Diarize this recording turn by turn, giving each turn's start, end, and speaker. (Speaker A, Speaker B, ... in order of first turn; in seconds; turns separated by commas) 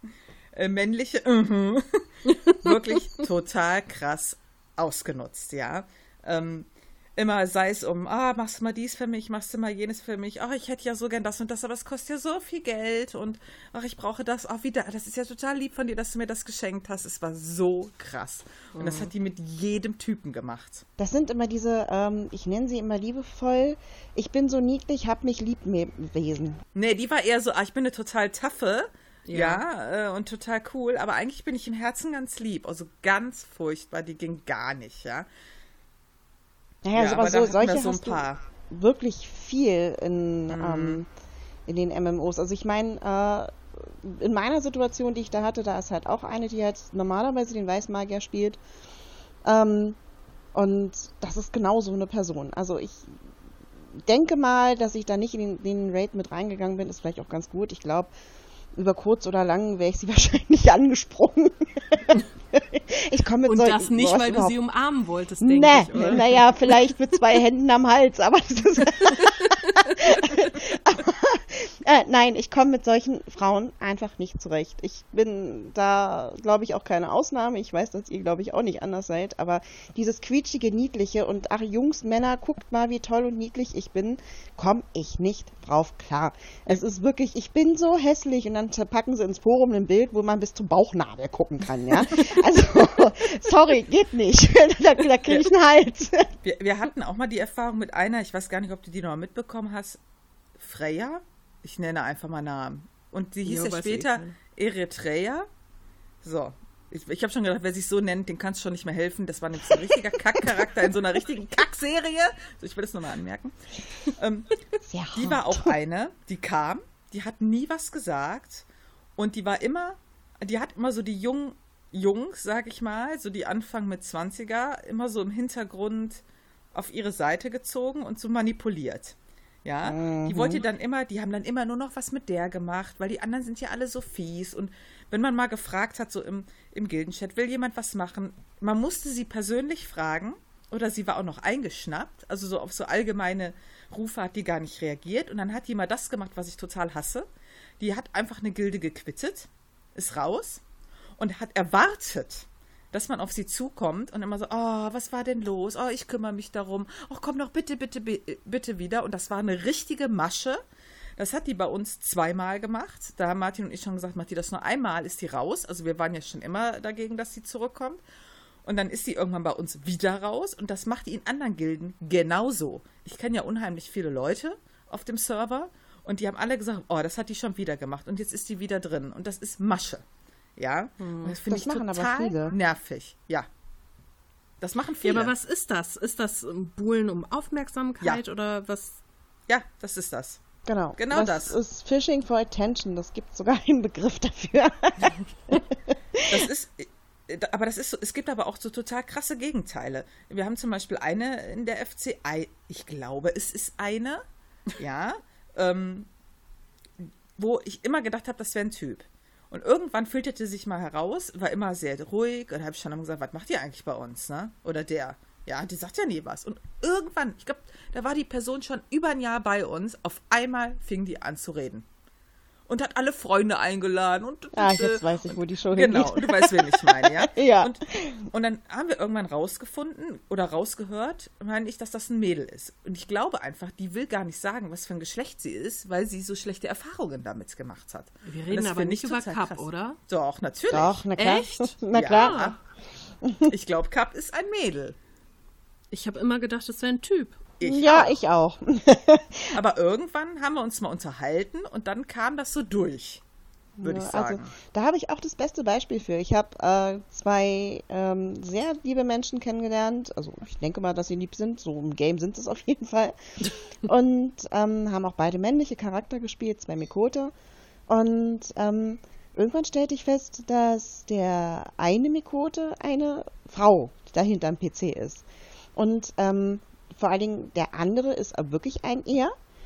Speaker A: 0.5-20.8, Speaker B: 2.4-2.7, Speaker B: 18.7-19.1, Speaker C: 21.0-26.6, Speaker A: 26.7-35.3, Speaker B: 29.3-29.6, Speaker C: 36.8-41.1, Speaker A: 37.0-38.4, Speaker A: 40.5-41.0, Speaker C: 41.7-48.6, Speaker C: 49.4-50.0, Speaker C: 50.5-53.2, Speaker C: 54.0-58.1, Speaker C: 58.7-64.5, Speaker B: 63.5-66.7, Speaker C: 65.4-96.3, Speaker B: 69.4-69.9, Speaker A: 96.4-100.0, Speaker A: 100.6-105.5, Speaker B: 103.4-104.3, Speaker A: 106.2-113.5, Speaker A: 114.2-114.6, Speaker C: 114.8-115.7, Speaker A: 115.1-118.6, Speaker A: 119.2-126.2, Speaker A: 126.7-147.2, Speaker C: 129.8-130.6, Speaker A: 147.8-150.6, Speaker A: 151.2-160.6, Speaker A: 161.2-168.0, Speaker A: 168.6-180.0, Speaker A: 180.6-183.5, Speaker B: 181.0-181.3, Speaker C: 181.4-182.6, Speaker A: 184.6-185.3, Speaker B: 185.0-189.0, Speaker A: 189.5-190.4, Speaker C: 190.7-196.4, Speaker A: 191.0-191.6, Speaker A: 196.2-204.2, Speaker A: 204.8-206.1, Speaker A: 207.0-221.8, Speaker A: 222.7-241.0, Speaker C: 224.5-228.2, Speaker B: 238.2-240.0, Speaker C: 240.7-242.5, Speaker B: 241.2-242.5, Speaker A: 241.9-242.6, Speaker C: 243.2-243.5, Speaker A: 243.4-244.9, Speaker B: 245.9-247.4, Speaker A: 247.6-248.2, Speaker C: 247.6-249.5, Speaker A: 249.5-253.2, Speaker C: 253.8-263.1, Speaker A: 253.8-254.5, Speaker C: 263.8-267.3, Speaker C: 267.9-275.2, Speaker C: 275.8-279.3